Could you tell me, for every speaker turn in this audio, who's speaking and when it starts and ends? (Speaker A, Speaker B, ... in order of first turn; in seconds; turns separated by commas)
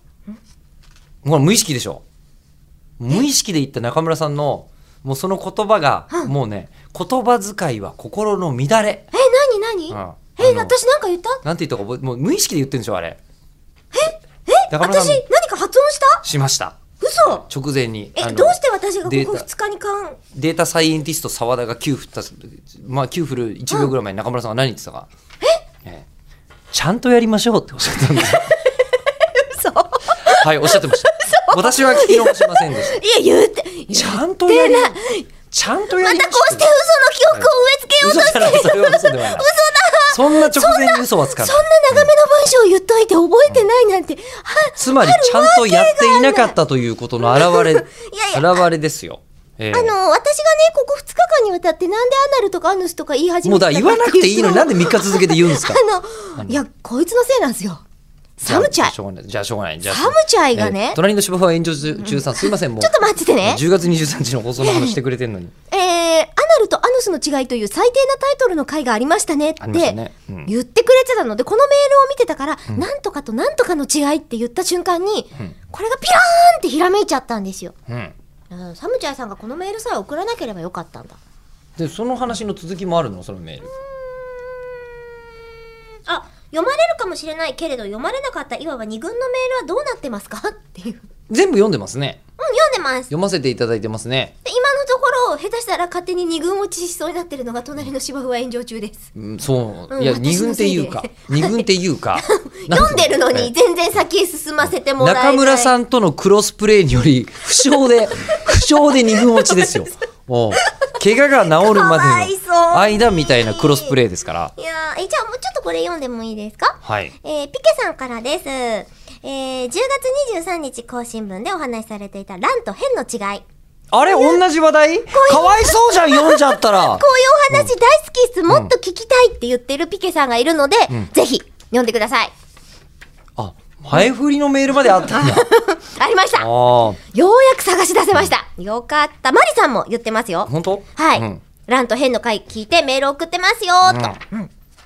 Speaker A: 1.2-2.0, Speaker A: 3.0-9.1, Speaker B: 9.1-11.4, Speaker A: 9.9-10.8, Speaker A: 11.4-13.2, Speaker B: 13.9-16.2, Speaker A: 14.7-15.2, Speaker A: 16.2-19.5, Speaker B: 17.0-17.4, Speaker B: 18.2-20.2, Speaker A: 20.3-25.1, Speaker A: 26.7-28.6, Speaker B: 28.3-35.3, Speaker A: 30.1-33.0, Speaker A: 33.9-35.0, Speaker A: 35.5-36.7, Speaker B: 35.9-46.5, Speaker A: 38.0-39.5, Speaker A: 40.1-42.1, Speaker A: 44.8-50.0, Speaker B: 47.2-48.6, Speaker B: 49.7-57.8, Speaker A: 53.5-55.8, Speaker B: 58.4-58.9, Speaker A: 58.4-65.5, Speaker B: 59.9-61.0, Speaker B: 62.0-63.6, Speaker B: 64.6-64.9, Speaker B: 65.7-77.7, Speaker A: 69.6-70.5, Speaker A: 77.9-78.1, Speaker B: 78.5-81.2, Speaker A: 81.8-83.7, Speaker B: 84.0-84.3, Speaker B: 86.0-91.1, Speaker A: 91.3-92.2, Speaker B: 92.4-93.1, Speaker A: 93.1-94.3, Speaker B: 94.4-99.1, Speaker A: 99.1-103.5, Speaker B: 99.9-105.7, Speaker A: 104.6-114.5, Speaker B: 108.3-109.8, Speaker B: 110.7-114.0, Speaker B: 114.5-123.4, Speaker A: 116.8-117.1, Speaker A: 123.9-127.7, Speaker B: 124.0-124.4, Speaker B: 125.1-132.3, Speaker A: 133.4-135.5, Speaker B: 135.0-136.5, Speaker A: 136.4-137.0, Speaker B: 137.0-144.5, Speaker A: 140.5-141.4, Speaker A: 143.8-144.2